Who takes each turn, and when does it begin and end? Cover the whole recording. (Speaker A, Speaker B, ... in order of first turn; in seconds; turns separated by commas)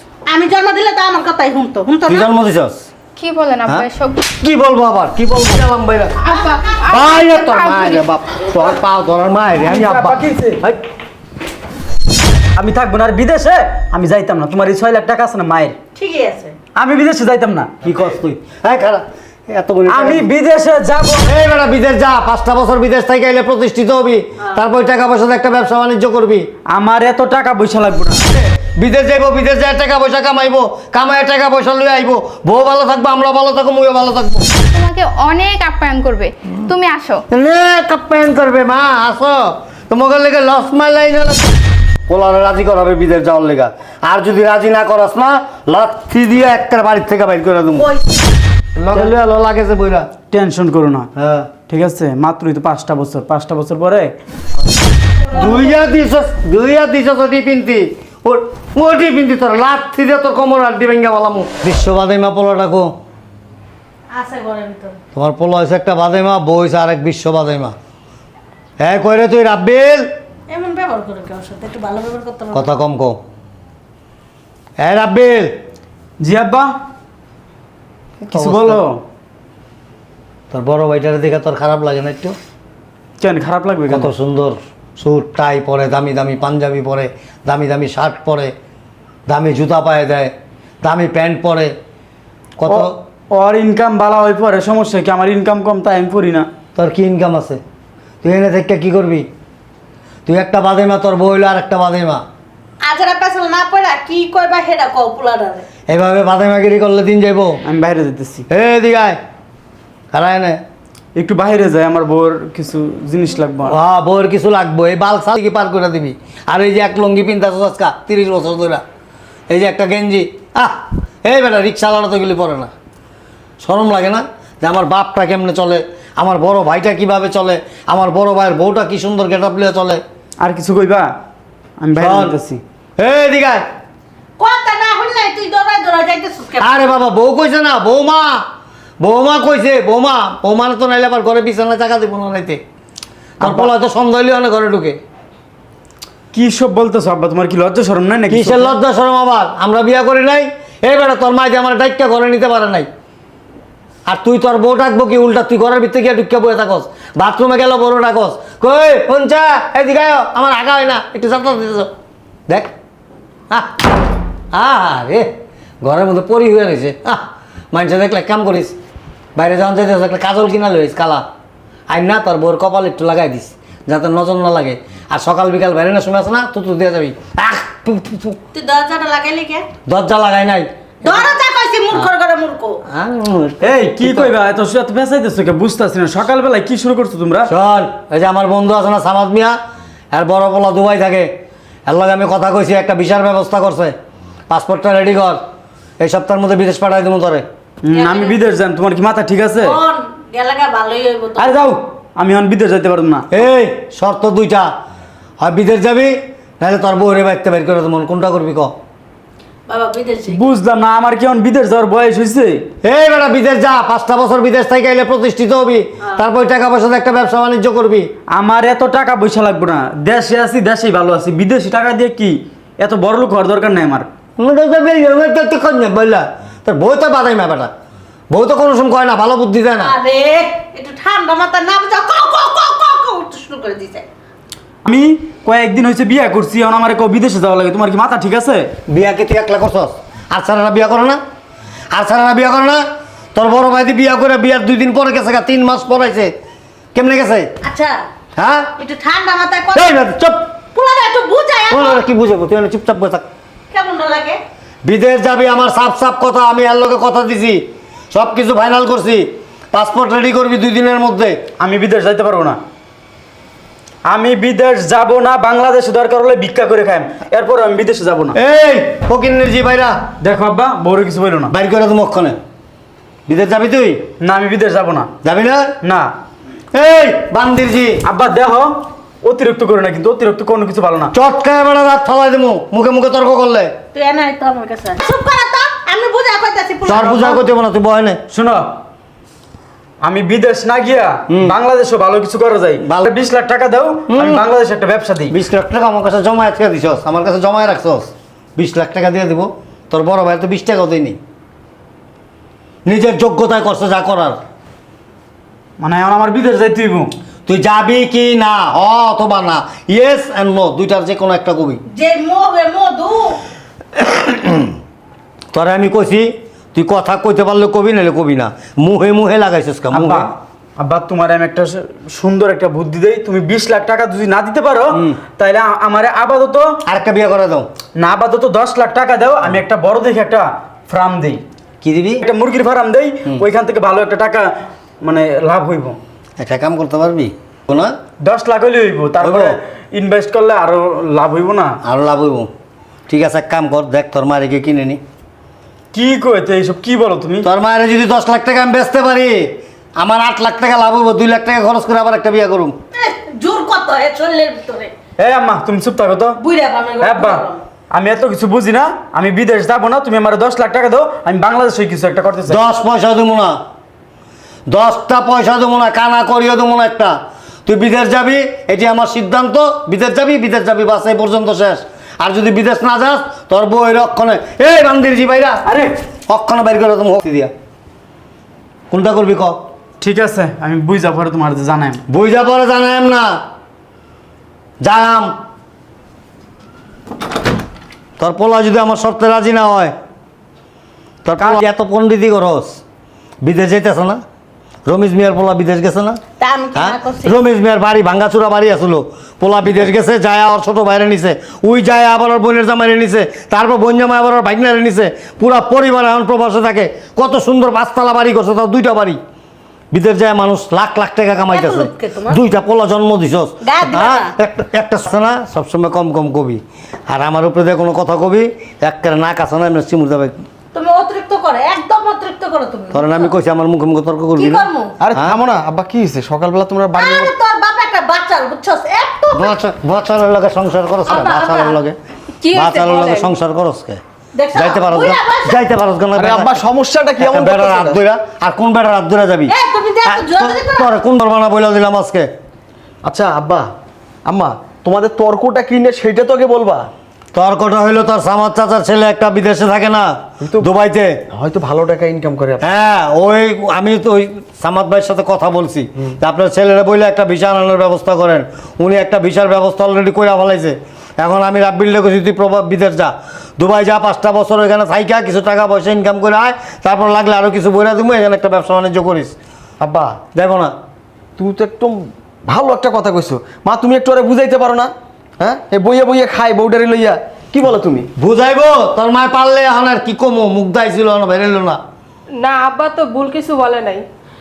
Speaker A: 0.3-2.3, Speaker B: 2.1-2.9, Speaker C: 3.2-4.2, Speaker B: 4.4-6.2, Speaker C: 6.2-8.1, Speaker A: 6.2-6.9, Speaker B: 6.9-10.8, Speaker D: 9.6-10.6, Speaker D: 12.6-15.8, Speaker A: 15.9-16.6, Speaker D: 16.8-17.7, Speaker B: 17.8-20.3, Speaker D: 19.9-21.3, Speaker B: 21.2-26.5, Speaker D: 26.7-28.2, Speaker B: 28.3-34.5, Speaker C: 34.7-37.2, Speaker B: 37.3-41.5, Speaker B: 42.1-47.9, Speaker A: 47.8-48.2, Speaker B: 48.8-50.1, Speaker D: 50.3-51.1, Speaker B: 51.2-51.5, Speaker D: 51.7-54.1, Speaker B: 55.3-62.9, Speaker A: 55.4-55.7, Speaker A: 64.1-65.0, Speaker B: 65.1-67.8, Speaker B: 68.8-70.1, Speaker A: 70.5-72.7, Speaker B: 72.5-73.2, Speaker B: 74.8-75.5, Speaker D: 76.2-76.7, Speaker B: 78.2-78.8, Speaker D: 78.3-79.0, Speaker B: 80.5-82.4, Speaker D: 83.2-84.1, Speaker B: 83.9-88.5, Speaker B: 89.3-91.8, Speaker B: 92.6-92.9, Speaker D: 92.7-96.5, Speaker B: 96.8-97.6, Speaker B: 98.2-99.3, Speaker B: 100.3-102.2, Speaker A: 102.8-105.7, Speaker B: 105.9-107.6, Speaker D: 107.7-108.5, Speaker B: 108.5-109.2, Speaker B: 110.1-110.6, Speaker D: 111.2-113.8, Speaker B: 113.7-118.8, Speaker B: 119.5-122.7, Speaker B: 123.6-130.0, Speaker D: 130.4-131.1, Speaker D: 131.8-132.6, Speaker B: 132.0-132.4, Speaker B: 133.0-133.7, Speaker A: 134.4-136.9, Speaker B: 136.6-138.4, Speaker B: 139.0-142.6, Speaker D: 143.4-143.7, Speaker B: 143.4-145.0, Speaker D: 146.3-148.8, Speaker B: 148.3-152.9, Speaker B: 154.1-161.9, Speaker B: 163.5-164.0, Speaker B: 164.5-165.3, Speaker B: 165.8-168.8, Speaker B: 169.4-171.2, Speaker B: 171.9-178.4, Speaker A: 178.5-179.7, Speaker B: 179.9-181.3, Speaker A: 181.0-182.8, Speaker B: 182.9-184.3, Speaker D: 183.6-187.5, Speaker B: 187.5-189.6, Speaker B: 190.1-191.3, Speaker B: 191.9-193.9, Speaker B: 194.5-195.4, Speaker B: 196.0-197.5, Speaker D: 197.8-199.8, Speaker A: 197.9-198.4, Speaker A: 199.6-201.6, Speaker D: 201.4-203.3, Speaker B: 203.3-204.7, Speaker B: 205.4-208.8, Speaker A: 209.7-210.5, Speaker D: 210.3-212.7, Speaker B: 212.8-218.1, Speaker D: 218.3-224.1, Speaker B: 224.4-227.7, Speaker B: 228.3-229.9, Speaker A: 229.8-234.1, Speaker D: 234.9-238.7, Speaker B: 238.9-241.2, Speaker B: 241.9-242.8, Speaker B: 243.3-246.3, Speaker B: 246.9-247.5, Speaker A: 247.6-248.1, Speaker B: 248.4-248.7, Speaker A: 248.8-250.0, Speaker B: 249.8-250.5, Speaker A: 250.7-252.0, Speaker B: 251.7-253.3, Speaker A: 253.7-254.4, Speaker B: 254.8-261.4, Speaker D: 261.6-262.6, Speaker D: 264.1-268.4, Speaker B: 268.4-270.0, Speaker D: 270.2-271.5, Speaker B: 271.5-272.4, Speaker B: 273.3-274.0, Speaker D: 274.2-275.1, Speaker B: 275.2-275.7, Speaker D: 275.8-276.1, Speaker B: 276.7-278.0, Speaker D: 278.1-281.1, Speaker B: 281.1-283.7, Speaker A: 283.9-287.4, Speaker B: 286.9-288.2, Speaker D: 288.3-288.7, Speaker D: 290.0-295.3, Speaker B: 292.8-293.1, Speaker B: 294.1-294.4, Speaker B: 295.3-301.2, Speaker B: 302.9-304.4, Speaker D: 305.8-307.1, Speaker B: 307.5-311.8, Speaker A: 311.9-313.4, Speaker B: 314.0-314.8, Speaker B: 315.5-320.3, Speaker D: 319.9-326.8, Speaker B: 326.9-327.7, Speaker D: 328.0-331.4, Speaker B: 331.8-332.2, Speaker D: 332.2-334.5, Speaker D: 335.0-336.0, Speaker B: 336.4-338.0, Speaker D: 338.2-341.8, Speaker B: 339.2-339.6, Speaker B: 341.8-342.5, Speaker B: 343.1-345.0, Speaker D: 345.9-347.5, Speaker B: 347.4-352.8, Speaker A: 352.9-354.9, Speaker D: 355.2-356.4, Speaker A: 356.4-357.6, Speaker D: 357.0-362.6, Speaker B: 362.5-363.6, Speaker B: 364.7-375.6, Speaker D: 375.7-375.9, Speaker B: 376.3-377.5, Speaker B: 378.9-379.6, Speaker D: 380.0-382.0, Speaker B: 382.1-383.4, Speaker B: 384.8-385.3, Speaker B: 388.2-389.9, Speaker B: 391.2-392.8, Speaker B: 393.4-394.2, Speaker B: 394.9-396.2, Speaker A: 396.4-397.4, Speaker B: 396.8-409.2, Speaker B: 409.9-420.4, Speaker A: 411.5-412.4, Speaker A: 413.6-414.3, Speaker A: 420.7-423.3, Speaker B: 422.9-425.4, Speaker A: 424.4-425.0, Speaker E: 425.0-427.3, Speaker A: 426.9-429.6, Speaker B: 429.4-432.0, Speaker A: 431.1-431.8, Speaker F: 432.4-433.3, Speaker B: 432.5-434.0, Speaker A: 434.3-435.6, Speaker B: 434.5-436.6, Speaker E: 436.1-438.0, Speaker B: 437.2-439.5, Speaker A: 439.5-440.9, Speaker B: 440.1-442.3, Speaker E: 443.0-443.7, Speaker E: 444.2-446.9, Speaker B: 447.3-451.1, Speaker E: 450.4-450.7, Speaker E: 451.3-452.6, Speaker B: 452.6-469.3, Speaker E: 469.8-470.2, Speaker B: 470.2-470.7, Speaker E: 471.4-478.1, Speaker B: 478.2-481.8, Speaker F: 482.4-484.0